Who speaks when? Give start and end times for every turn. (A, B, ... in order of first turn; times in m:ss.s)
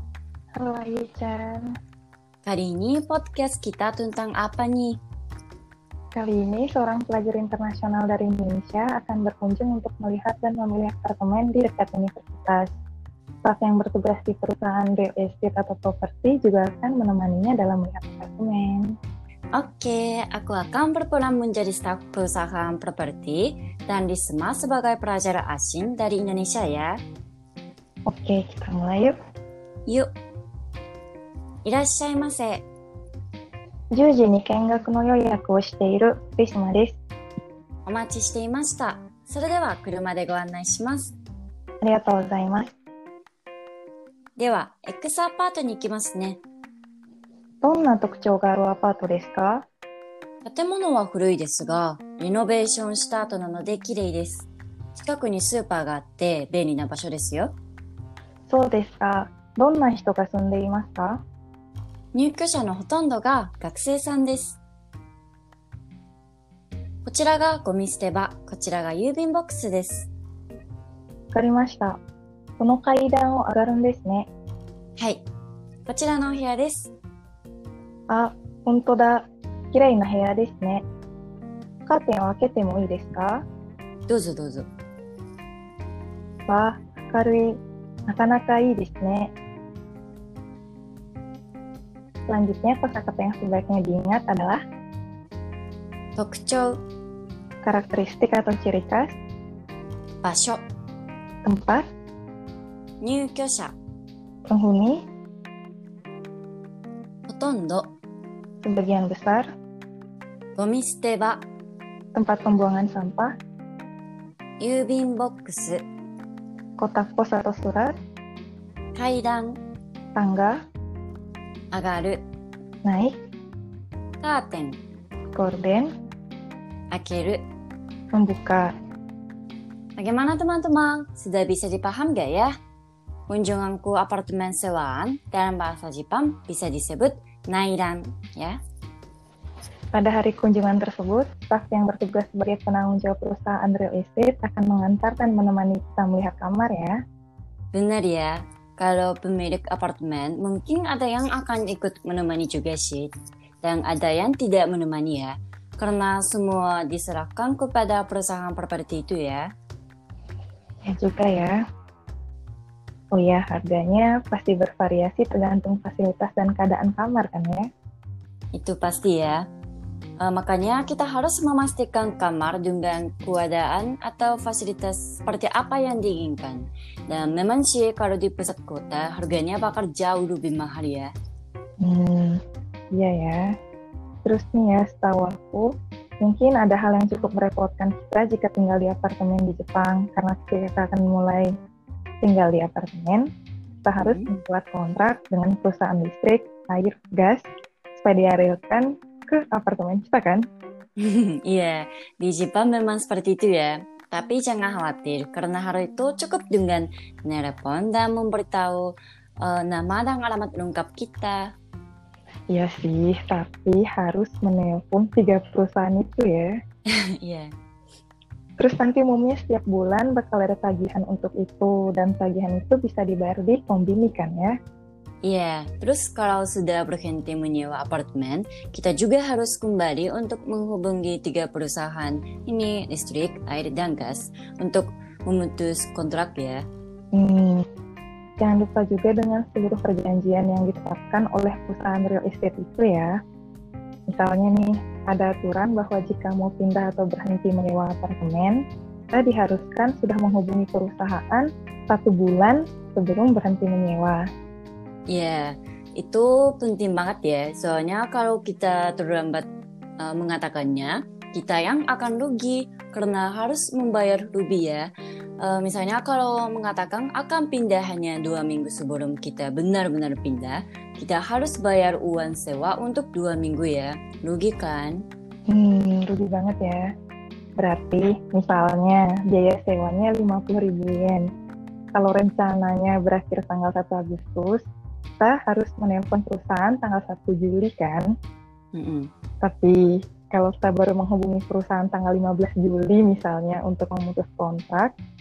0:00.6-0:01.7 A
0:02.4-0:05.0 B
0:06.2-0:12.7 A
0:13.4-0:18.9 A
0:19.5-0:27.0 B
0:28.1-0:29.2 A
0:31.6-0:32.7 B
0:33.9-0:37.0 A
0:37.9-0:41.2 B
0:41.8-0:42.7 A
0:44.4-0:46.4 B
0:47.6-0:49.7 A
0:50.4-0:57.6 B
0:58.5-1:01.2 A
1:02.1-1:04.6 B
1:07.0-1:10.1 B
1:11.3-1:12.0 A
1:12.6-1:14.3 A
1:15.0-1:15.3 B
1:15.9-1:16.9 B
1:18.1-1:20.8 A
1:21.9-1:23.4 A
1:24.1-1:24.7 B
1:26.5-1:27.6 A
1:28.1-1:29.3 A
1:32.3-1:34.6 A
1:36.2-1:36.8 B
1:37.6-1:39.2 A
1:40.2-1:40.6 B
1:41.4-1:41.8 A
1:43.0-1:43.8 B
1:44.5-1:45.0 A
1:47.3-1:47.9 B
1:48.6-1:49.5 A
1:50.6-1:51.4 B
1:52.2-1:53.3 A
1:54.6-1:55.8 B
1:56.8-1:57.9 A
1:59.0-1:59.6 B
2:00.2-2:00.6 A
2:01.7-2:02.2 B
2:02.8-2:03.2 A
2:04.2-2:04.8 B
2:05.3-2:05.9 A
2:06.9-2:07.4 B
2:08.1-2:08.7 A
2:10.0-2:12.5 B
2:13.3-2:18.6 B
2:19.9-2:27.0 A
2:27.7-2:39.5 B
2:40.9-2:41.6 A
2:43.1-2:47.7 A
2:48.5-2:49.5 B
2:50.2-3:01.1 B
3:01.8-3:02.4 A
3:02.9-3:03.4 A
3:04.2-3:11.5 A
3:12.2-3:13.3 A
3:13.8-3:20.4 A
3:14.0-3:14.3 B
3:21.0-3:31.5 B
3:32.5-3:36.5 A
3:36.9-3:37.5 B
3:38.6-3:44.5 A
3:45.2-3:56.6 B
3:57.2-3:57.6 A
3:58.4-4:03.1 A
4:04.1-4:08.6 A
4:09.1-4:14.2 A
4:15.1-4:19.5 B
4:20.0-4:24.9 B
4:25.4-4:35.0 B
4:35.5-4:36.9 A
4:37.6-4:41.3 A
4:41.9-4:44.6 A
4:45.2-4:48.1 A
4:48.8-4:49.1 B
4:49.4-4:54.9 A